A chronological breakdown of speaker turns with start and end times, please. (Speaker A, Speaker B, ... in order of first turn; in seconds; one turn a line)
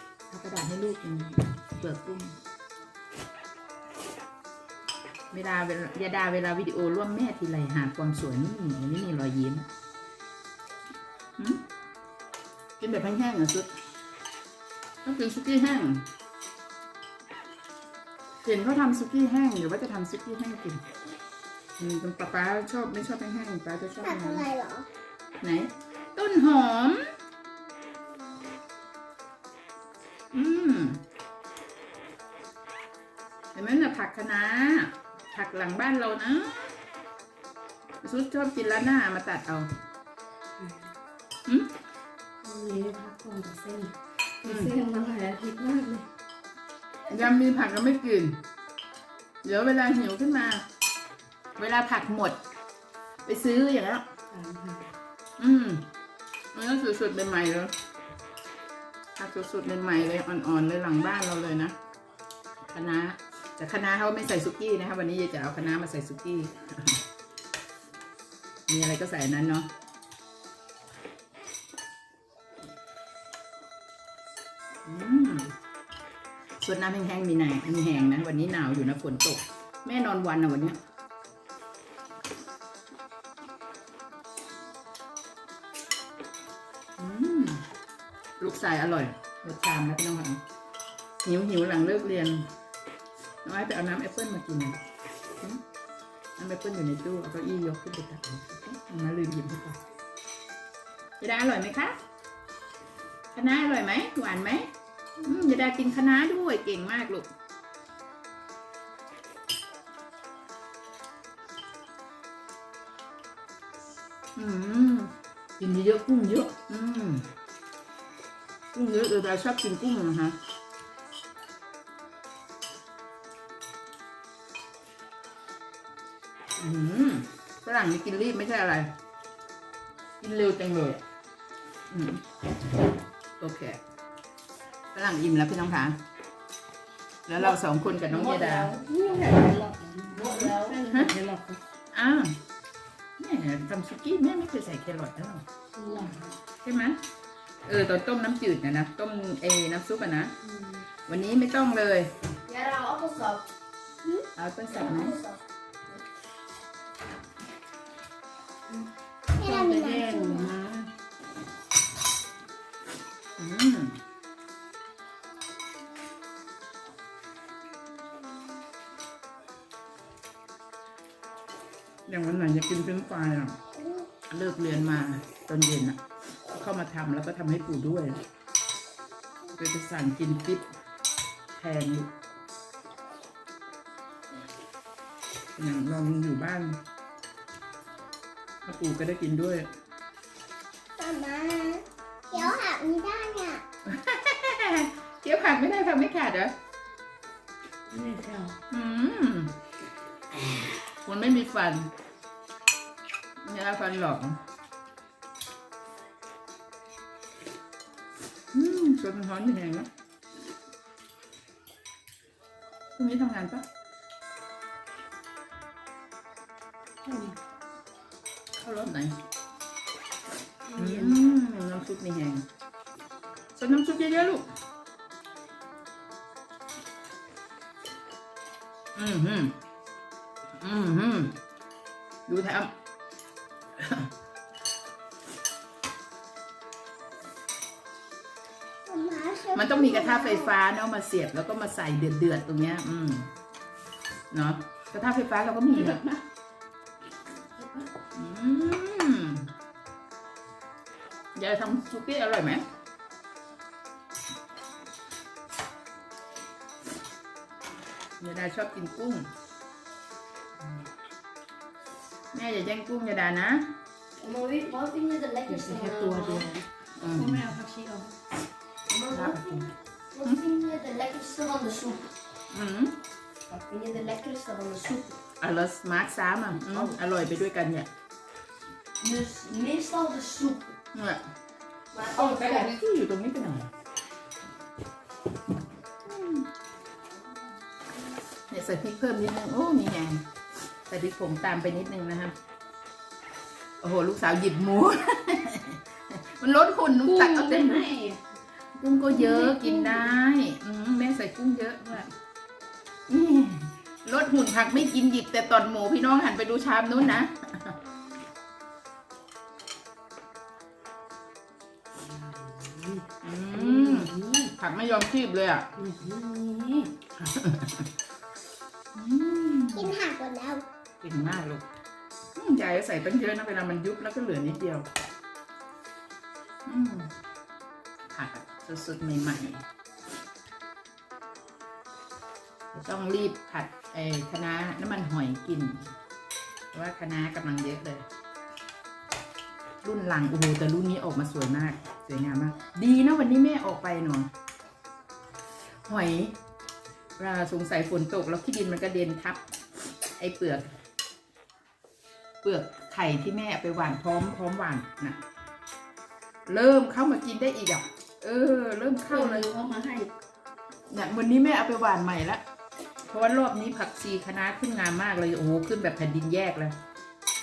Speaker A: 0.3-2.4
Speaker A: 5.3-9.7
Speaker A: 12.8-13.7
Speaker A: 15.0-16.1
Speaker A: 18.4-20.8
Speaker A: 21.8-24.5
Speaker B: 24.0-24.9
Speaker A: 25.4-27.1
Speaker A: 30.3-31.0
Speaker A: 33.5-36.5
Speaker A: 38.0-39.7
Speaker C: 40.6-40.9
Speaker C: 42.4-46.0
Speaker A: 44.4-44.7
Speaker A: 47.1-48.4
Speaker A: 49.4-50.6
Speaker A: 51.6-52.4
Speaker A: 53.2-54.0
Speaker C: 54.3-54.9
Speaker A: 55.4-55.8
Speaker A: 56.5-57.7
Speaker A: 59.2-61.7
Speaker A: 62.7-67.0
Speaker A: 68.7-69.7
Speaker A: 74.8-75.5
Speaker A: 76.6-80.8
Speaker A: 87.0-87.6
Speaker A: 88.4-90.4
Speaker A: 91.2-92.5
Speaker A: 93.4-94.8
Speaker A: 96.4-99.8
Speaker A: 101.2-102.0
Speaker A: 103.3-104.7
Speaker A: 105.2-107.3
Speaker A: 114.3-117.3
Speaker A: 118.7-120.3
Speaker A: 126.6-128.9
Speaker A: 130.2-131.0
Speaker A: 131.9-132.2
Speaker A: 133.4-133.8
Speaker A: 134.9-136.0
Speaker A: 137.3-138.7
Speaker C: 138.2-141.6
Speaker B: 140.1-140.8
Speaker A: 141.9-142.4
Speaker A: 143.2-145.4
Speaker C: 145.8-146.3
Speaker A: 146.6-147.0
Speaker A: 147.7-150.3
Speaker A: 151.1-152.1
Speaker B: 152.5-153.4
Speaker B: 154.0-155.4
Speaker A: 154.3-155.2
Speaker C: 158.7-160.9
Speaker B: 159.4-160.5
Speaker A: 163.4-164.0
Speaker A: 172.1-173.6
Speaker A: 174.3-176.0
Speaker A: 176.5-178.2
Speaker A: 179.5-180.6
Speaker A: 181.6-182.1
Speaker A: 185.6-186.8
Speaker A: 188.6-189.7
Speaker B: 191.0-193.6
Speaker A: 193.9-196.5
Speaker C: 197.9-198.6
Speaker A: 198.7-199.5
Speaker A: 201.0-201.9
Speaker A: 203.4-204.4
Speaker A: 208.5-209.9
Speaker A: 213.0-213.6
Speaker C: 217.0-217.3
Speaker A: 218.6-219.2
Speaker C: 220.7-221.2
Speaker A: 220.8-222.4
Speaker A: 223.6-224.4
Speaker A: 228.9-229.6
Speaker A: 230.6-231.3
Speaker A: 232.3-232.7
Speaker A: 233.8-234.1
Speaker B: 238.9-240.5
Speaker A: 239.5-243.3
Speaker A: 244.3-246.0
Speaker C: 245.7-246.2
Speaker A: 248.1-249.5
Speaker A: 251.3-252.7
Speaker A: 258.2-259.3
Speaker A: 262.3-263.7
Speaker B: 264.2-266.5
Speaker C: 265.5-268.1
Speaker A: 267.0-267.4
Speaker B: 268.9-272.1
Speaker A: 269.1-269.6
Speaker A: 272.5-272.9
Speaker B: 273.5-275.1
Speaker A: 275.4-277.9
Speaker B: 279.0-280.7
Speaker A: 280.9-281.2
Speaker B: 281.9-282.7
Speaker A: 282.1-283.7
Speaker A: 286.1-286.4
Speaker A: 288.5-290.2
Speaker A: 290.9-292.3
Speaker A: 293.8-297.9
Speaker C: 297.0-298.2
Speaker A: 298.8-302.1
Speaker C: 299.2-300.1
Speaker A: 303.1-307.8
Speaker C: 312.0-314.5
Speaker A: 313.2-315.7
Speaker C: 315.8-316.9
Speaker A: 317.2-317.8
Speaker A: 318.9-320.0
Speaker B: 319.8-320.6
Speaker A: 321.0-321.6
Speaker A: 322.4-324.9
Speaker A: 326.6-327.1
Speaker A: 328.1-329.6
Speaker A: 332.7-335.9
Speaker A: 336.7-338.1
Speaker A: 339.8-344.3
Speaker A: 345.9-346.4
Speaker A: 347.2-349.4
Speaker A: 350.1-350.7
Speaker A: 352.4-355.2
Speaker A: 356.5-359.5
Speaker C: 359.1-360.1
Speaker A: 360.9-362.4
Speaker A: 363.1-366.8